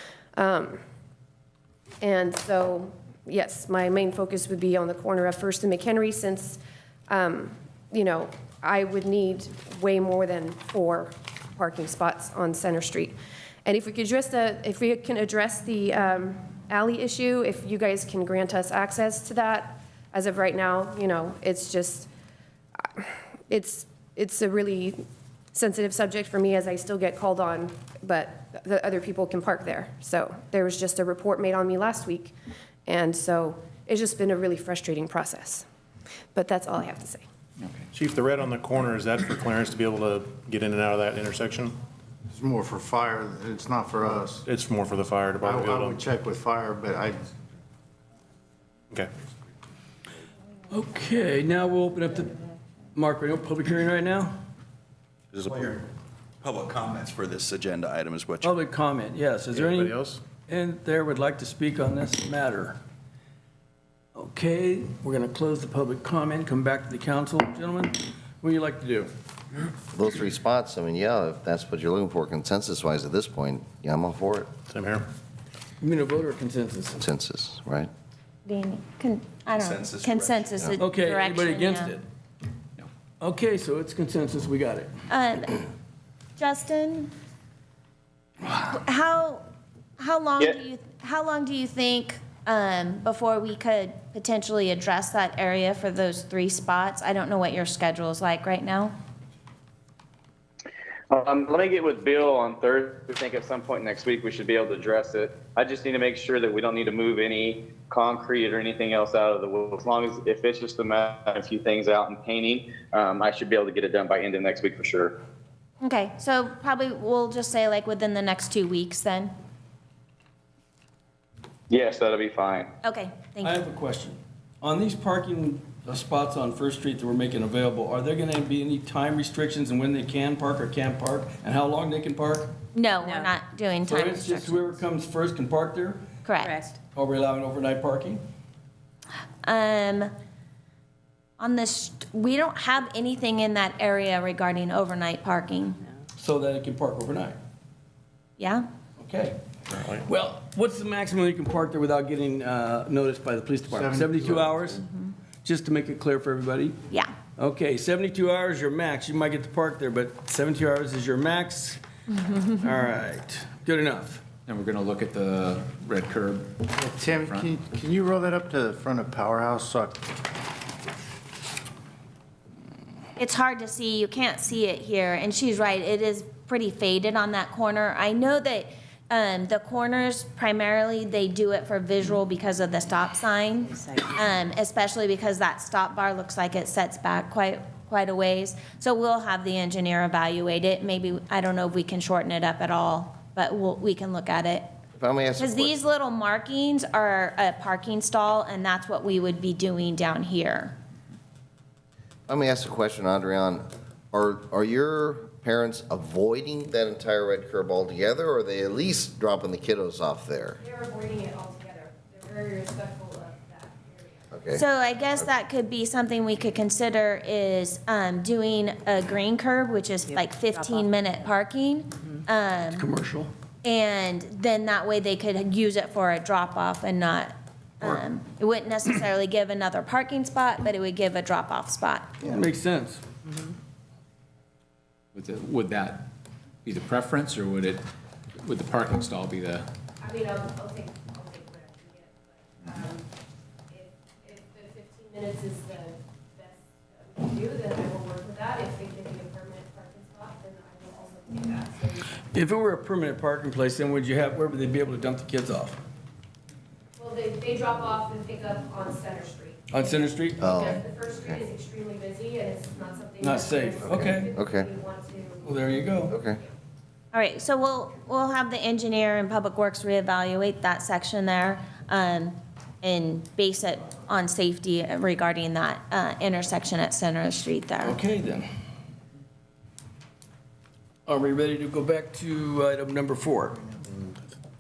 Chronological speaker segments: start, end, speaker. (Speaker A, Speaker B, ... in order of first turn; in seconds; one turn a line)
Speaker A: 0.3-0.8
Speaker A: 2.0-22.1
Speaker A: 22.9-25.0
Speaker A: 25.5-32.3
Speaker A: 32.9-35.6
Speaker A: 36.3-37.2
Speaker B: 37.6-37.9
Speaker C: 37.9-41.8
Speaker D: 42.3-44.5
Speaker C: 44.4-46.0
Speaker D: 45.4-47.3
Speaker E: 50.7-54.3
Speaker F: 55.3-58.6
Speaker E: 58.4-62.8
Speaker C: 59.5-60.2
Speaker E: 64.1-69.1
Speaker G: 69.9-74.5
Speaker C: 74.7-75.0
Speaker E: 75.8-77.0
Speaker G: 77.0-77.9
Speaker H: 78.5-81.9
Speaker F: 79.6-80.5
Speaker E: 80.8-82.0
Speaker E: 83.2-84.9
Speaker H: 85.1-85.7
Speaker H: 86.4-87.1
Speaker H: 88.5-89.4
Speaker H: 90.0-98.9
Speaker I: 101.1-115.1
Speaker H: 115.8-119.3
Speaker I: 121.7-122.7
Speaker H: 122.8-123.6
Speaker E: 123.4-132.5
Speaker H: 132.7-134.8
Speaker E: 133.8-136.1
Speaker H: 136.2-136.6
Speaker E: 136.9-138.2
Speaker H: 139.4-140.1
Speaker H: 141.4-145.8
Speaker E: 146.2-147.4
Speaker H: 148.4-148.7
Speaker E: 149.0-149.4
Speaker C: 149.7-150.1
Speaker E: 150.0-154.9
Speaker D: 153.7-154.7
Speaker E: 155.4-156.8
Speaker H: 156.9-157.2
Speaker E: 157.3-161.8
Speaker E: 162.4-164.2
Speaker B: 164.5-167.5
Speaker D: 166.7-170.1
Speaker H: 173.2-194.7
Speaker G: 195.0-195.8
Speaker H: 195.4-200.8
Speaker G: 202.3-210.6
Speaker A: 210.6-214.2
Speaker G: 214.3-214.7
Speaker H: 214.5-222.9
Speaker E: 222.7-223.3
Speaker H: 223.6-232.3
Speaker E: 232.2-233.1
Speaker B: 235.1-237.9
Speaker B: 238.4-239.7
Speaker A: 240.0-243.1
Speaker A: 243.7-252.1
Speaker E: 252.3-255.8
Speaker A: 256.9-265.5
Speaker E: 259.7-260.5
Speaker G: 260.4-261.4
Speaker E: 263.2-264.3
Speaker G: 263.9-264.7
Speaker E: 265.4-266.1
Speaker G: 266.1-266.4
Speaker H: 267.1-278.0
Speaker E: 277.8-278.4
Speaker E: 281.1-283.6